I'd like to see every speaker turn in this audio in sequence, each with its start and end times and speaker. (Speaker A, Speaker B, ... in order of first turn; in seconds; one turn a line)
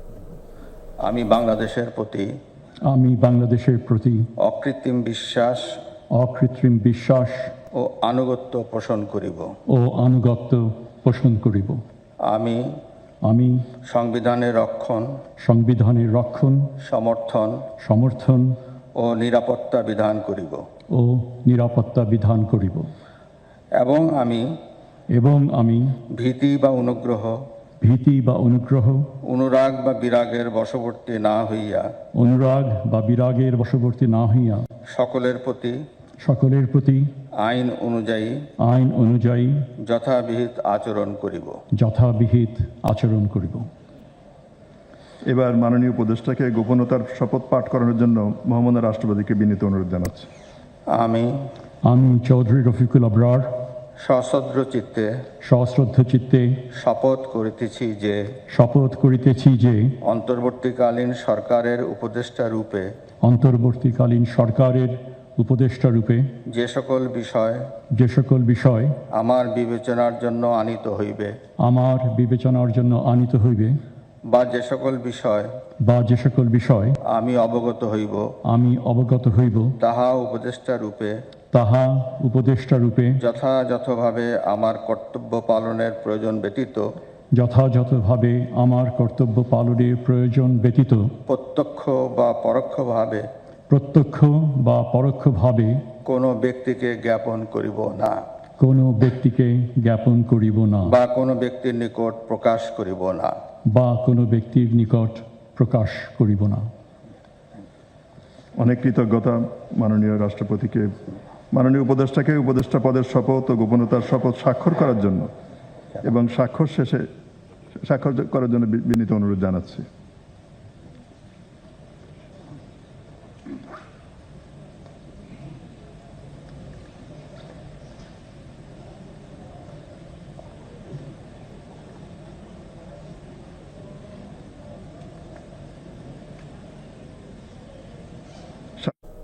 Speaker A: 1.0-2.3
Speaker B: 2.9-4.3
Speaker A: 4.4-5.8
Speaker B: 6.1-7.5
Speaker A: 7.8-9.6
Speaker B: 9.7-11.8
Speaker A: 12.2-12.8
Speaker B: 13.2-13.7
Speaker A: 13.9-15.2
Speaker B: 15.4-16.7
Speaker A: 16.9-17.6
Speaker B: 17.8-18.6
Speaker A: 19.0-20.6
Speaker B: 20.9-22.9
Speaker A: 23.8-24.5
Speaker B: 25.1-26.0
Speaker A: 26.2-27.4
Speaker B: 27.8-29.1
Speaker A: 29.3-31.9
Speaker B: 32.2-34.6
Speaker A: 34.9-35.8
Speaker B: 36.2-37.1
Speaker A: 37.4-38.5
Speaker B: 38.6-39.6
Speaker A: 39.8-41.6
Speaker B: 41.7-43.7
Speaker C: 45.3-50.3
Speaker A: 50.9-51.5
Speaker B: 51.8-53.5
Speaker A: 54.0-55.1
Speaker B: 55.4-56.6
Speaker A: 56.8-58.2
Speaker B: 58.5-59.9
Speaker A: 60.1-62.9
Speaker B: 63.2-66.3
Speaker A: 66.5-67.7
Speaker B: 67.9-69.0
Speaker A: 69.1-71.4
Speaker B: 71.6-73.8
Speaker A: 74.3-75.5
Speaker B: 75.8-77.0
Speaker A: 77.1-78.3
Speaker B: 78.5-79.7
Speaker A: 79.8-81.2
Speaker B: 81.5-83.2
Speaker A: 83.2-86.8
Speaker B: 87.3-91.1
Speaker A: 91.3-93.3
Speaker B: 93.7-95.8
Speaker A: 96.1-98.2
Speaker B: 98.6-100.9
Speaker A: 100.9-103.3
Speaker B: 103.7-106.7
Speaker C: 108.6-111.0
Speaker C: 111.5-115.3
Speaker C: 116.0-117.1
Speaker C: 117.8-119.9